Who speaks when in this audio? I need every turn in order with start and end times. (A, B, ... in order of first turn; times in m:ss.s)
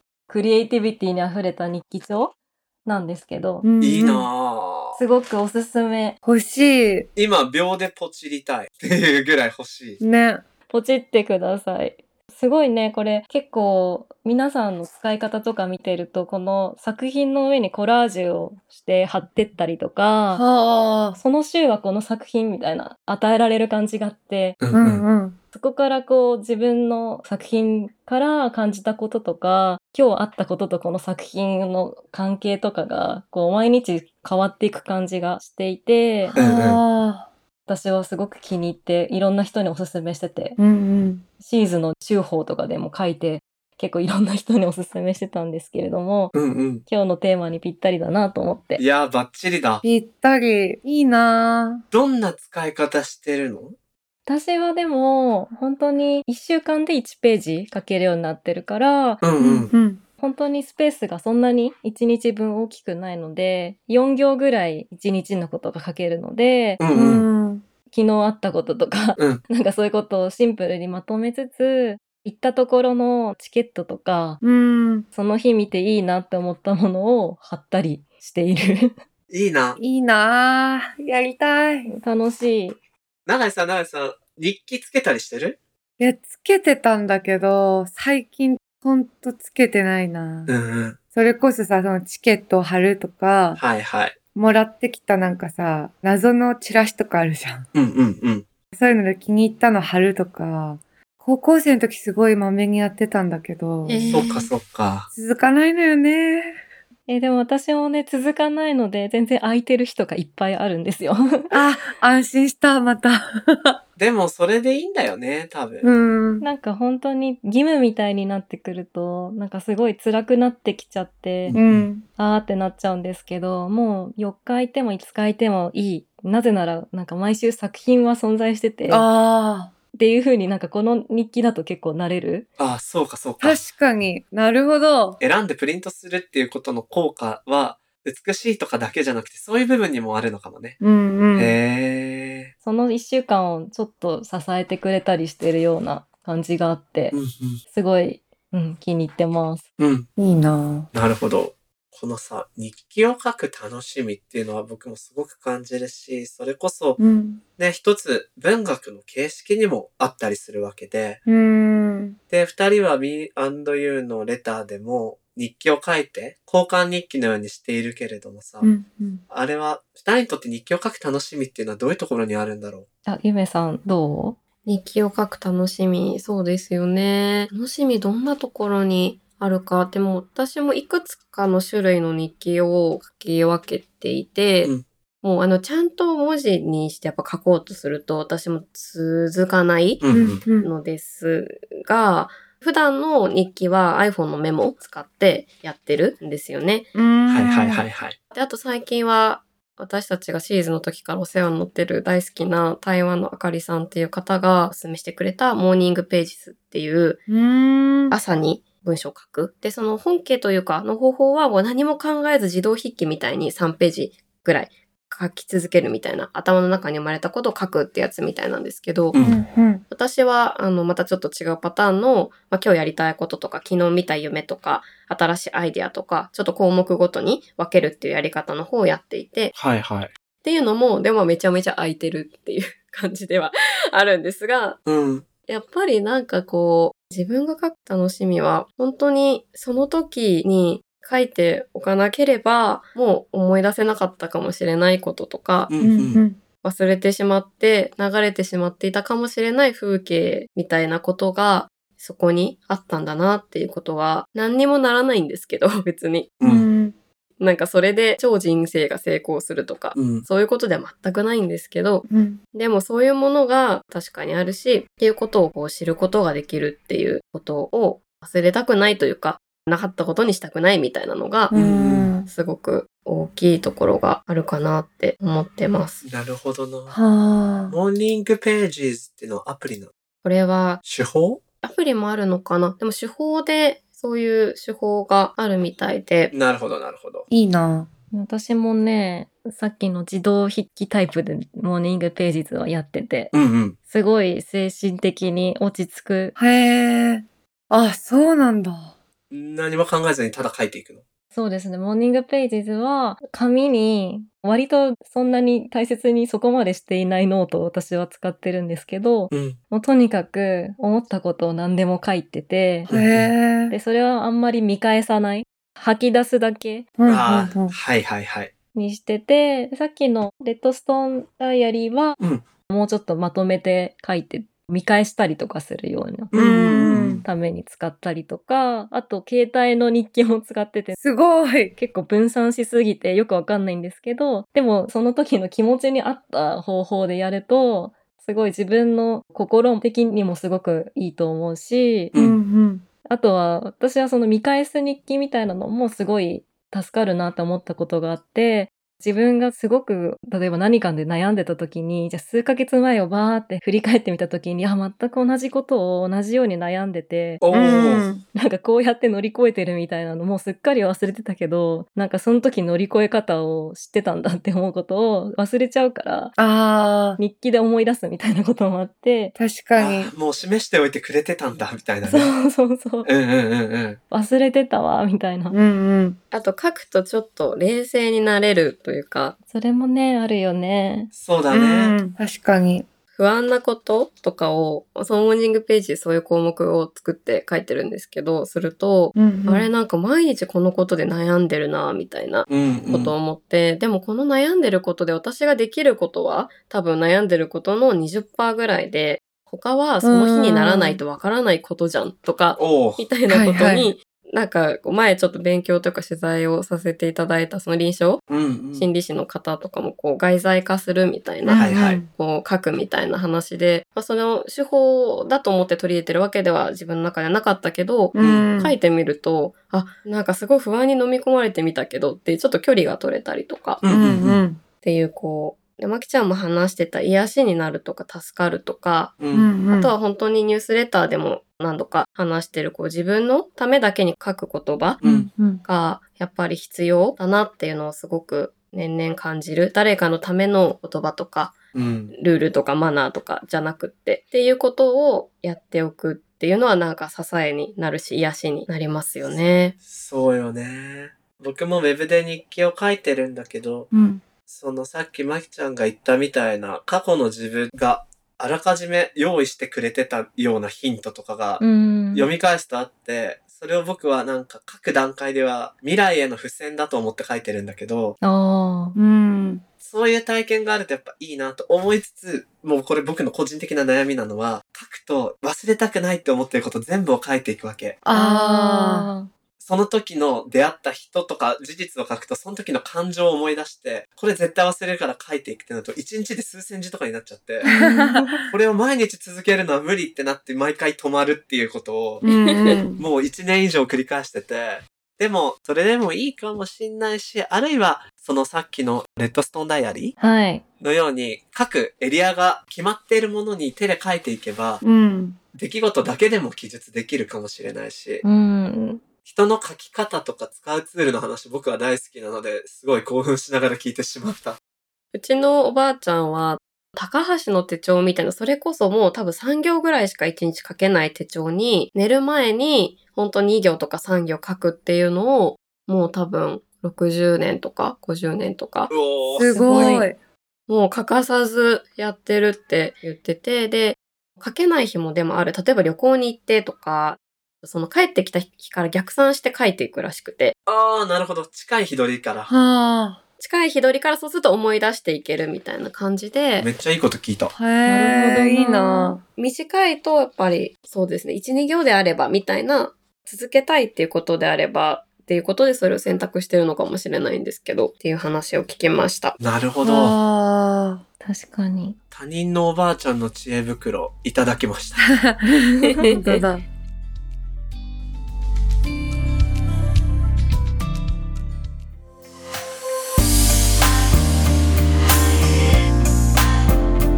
0:00.3-0:03.6 A
0:03.6-0:04.3 B
0:03.8-0:05.0 C
0:04.9-0:06.2 A
0:06.2-0:07.1 B
0:07.2-0:10.0 C
0:10.0-0:10.4 B
0:10.7-0:20.4 A
0:20.3-0:21.2 B
0:21.2-0:24.6 A
0:24.6-0:25.0 C
0:24.7-0:25.4 B
0:25.5-0:36.4 A
0:36.2-0:37.3 B
0:36.4-0:36.8 C
0:37.7-0:40.6 A
0:40.6-0:41.2 B
0:41.4-0:46.3 A
0:46.3-0:46.8 C
0:46.8-0:48.8 A
0:48.8-0:49.8 C
0:49.8-0:51.8 B
0:51.9-0:53.7 C
0:54.2-0:59.2 A
0:59.2-0:59.7 C
0:59.4-1:00.0 B
1:00.2-1:06.8 A
1:06.8-1:07.3 C
1:06.9-1:07.6 B
1:07.9-1:14.4 A
1:09.2-1:09.4 C
1:14.4-1:15.1 B
1:15.1-1:18.9 A
1:19.3-1:19.8 C
1:19.8-1:21.9 B
1:21.8-1:22.8 A
1:23.2-1:25.6 C
1:26.0-1:30.5 B
1:30.5-1:31.0 C
1:31.1-1:33.6 B
1:33.6-1:34.2 C
1:34.3-1:37.7 B
1:37.7-1:38.4 C
1:38.7-1:44.2 B
1:43.8-1:44.5 D
1:44.1-1:45.1 C
1:45.1-1:46.6 B
1:47.1-1:51.6 A
1:51.5-1:53.8 B
1:54.0-1:55.9 C
1:55.8-1:56.4 B
1:56.4-2:01.6 A
2:01.4-2:01.8 C
2:01.5-2:02.0 B
2:02.2-2:09.0 A
2:08.9-2:09.7 B
2:09.9-2:12.5 A
2:12.6-2:13.6 C
2:13.4-2:15.2 B
2:15.2-2:20.8 C
2:20.8-2:21.5 B
2:21.3-2:22.5 C
2:22.6-2:27.2 A
2:27.1-2:27.6 C
2:27.7-2:29.6 A
2:29.8-2:30.1 C
2:30.2-2:30.9 B
2:30.9-2:37.0 C
2:37.0-2:37.4 B
2:37.6-2:41.2 C
2:41.2-2:42.2 B
2:42.3-2:48.7 C
2:48.6-2:49.2 B
2:49.3-2:52.9 C
2:53.0-2:54.4 A
2:54.6-3:16.9 D
3:10.0-3:10.4 C
3:10.1-3:10.7 B
3:16.9-3:17.8 B
3:17.3-3:18.2 C
3:18.3-3:27.2 D
3:27.3-3:28.2 B
3:28.1-3:39.2 D
3:39.1-3:39.4 C
3:39.2-3:39.8 B
3:39.9-3:49.5 D
3:49.5-3:50.1 C
3:50.4-3:54.8 D
3:54.8-3:55.2 C
3:55.5-4:05.7 D
4:05.7-4:06.2 C
4:05.8-4:06.4 B
4:06.6-4:16.4 D
4:16.4-4:16.7 C
4:16.4-4:16.9 B
4:17.4-4:31.5 D
4:20.0-4:20.2 C
4:22.1-4:22.4 B
4:31.5-4:32.3 B
4:31.5-4:32.1 C
4:32.3-4:36.0 D
4:36.0-4:37.0 C
4:36.9-4:37.8 B
4:37.7-4:39.9 C
4:40.2-4:40.8 D
4:40.8-4:41.4 C
4:41.6-4:46.3 D
4:46.3-4:47.3 C
4:47.3-4:47.9 B
4:48.1-4:53.3 A
4:53.3-4:53.8 C
4:53.9-4:56.4 A
4:56.4-4:58.9 B
4:59.3-5:01.0 C
5:01.3-5:12.9 A
5:09.3-5:09.6 C
5:12.9-5:13.3 C
5:12.9-5:13.8 B
5:13.7-5:16.9 A
5:17.0-5:17.7 B
5:17.0-5:18.5 C
5:18.7-5:22.2 A
5:22.7-5:31.0 A
5:26.3-5:27.2 C
5:26.3-5:27.2 B
5:31.0-5:31.8 B
5:31.8-5:42.1 A
5:42.1-5:42.4 C
5:42.1-5:42.8 B
5:43.1-5:57.4 A
5:57.4-5:58.1 C
5:57.5-5:58.2 B
5:58.3-6:06.3 A
6:06.4-6:07.2 B
6:07.2-6:09.3 A
6:09.4-6:10.1 B
6:09.8-6:12.3 C
6:12.0-6:13.1 A
6:13.0-6:14.0 C
6:14.1-6:15.6 A
6:15.5-6:16.2 B
6:16.3-6:19.4 D
6:19.5-6:21.1 A
6:21.1-6:22.0 C
6:21.5-6:22.8 B
6:23.1-6:48.2 D
6:29.2-6:29.7 B
6:32.5-6:33.1 C
6:40.0-6:41.0 B
6:42.6-6:43.0 C
6:43.3-6:43.9 B
6:48.3-6:48.9 C
6:48.7-7:03.8 D
6:51.4-6:52.1 B
6:51.5-6:52.0 C
6:58.1-6:58.7 B
6:58.2-6:58.5 C
7:03.8-7:04.4 C
7:03.9-7:04.6 B
7:04.8-7:09.2 D
7:09.2-7:09.5 C
7:09.3-7:09.9 B
7:09.7-7:15.0 D
7:15.0-7:15.3 C
7:15.0-7:15.6 B
7:15.6-7:21.6 D
7:21.7-7:22.1 C
7:22.1-7:29.7 D
7:29.8-7:33.9 C
7:33.9-7:34.2 B
7:34.5-7:48.2 C
7:41.6-7:42.3 A
7:48.2-7:49.0 A
7:49.0-7:49.6 B
7:49.8-7:58.0 C
7:58.0-7:59.1 B
7:58.1-7:59.3 A
7:59.6-8:07.7 C
8:07.6-8:08.4 A
8:07.6-8:08.5 B
8:08.5-8:12.2 C
8:12.2-8:13.0 B
8:12.2-8:12.8 D
8:12.9-8:20.1 C
8:20.2-8:20.6 A
8:20.8-8:24.8 C
8:24.8-8:25.4 B
8:25.5-8:28.2 C
8:28.2-8:29.0 A
8:29.2-8:34.6 C
8:35.1-8:48.9 D
8:48.9-8:50.0 C
8:49.3-8:50.2 B
8:49.5-8:50.1 A
8:50.7-9:00.5 D
9:00.7-9:02.5 C
9:02.5-9:03.2 B
9:03.4-9:06.7 D
9:06.6-9:07.5 C
9:07.5-9:09.2 B
9:07.8-9:09.2 A
9:09.4-9:19.4 D
9:19.4-9:20.2 C
9:19.8-9:21.0 B
9:21.2-9:22.0 A
9:22.1-9:25.2 C
9:25.0-9:26.6 B
9:25.9-9:26.4 A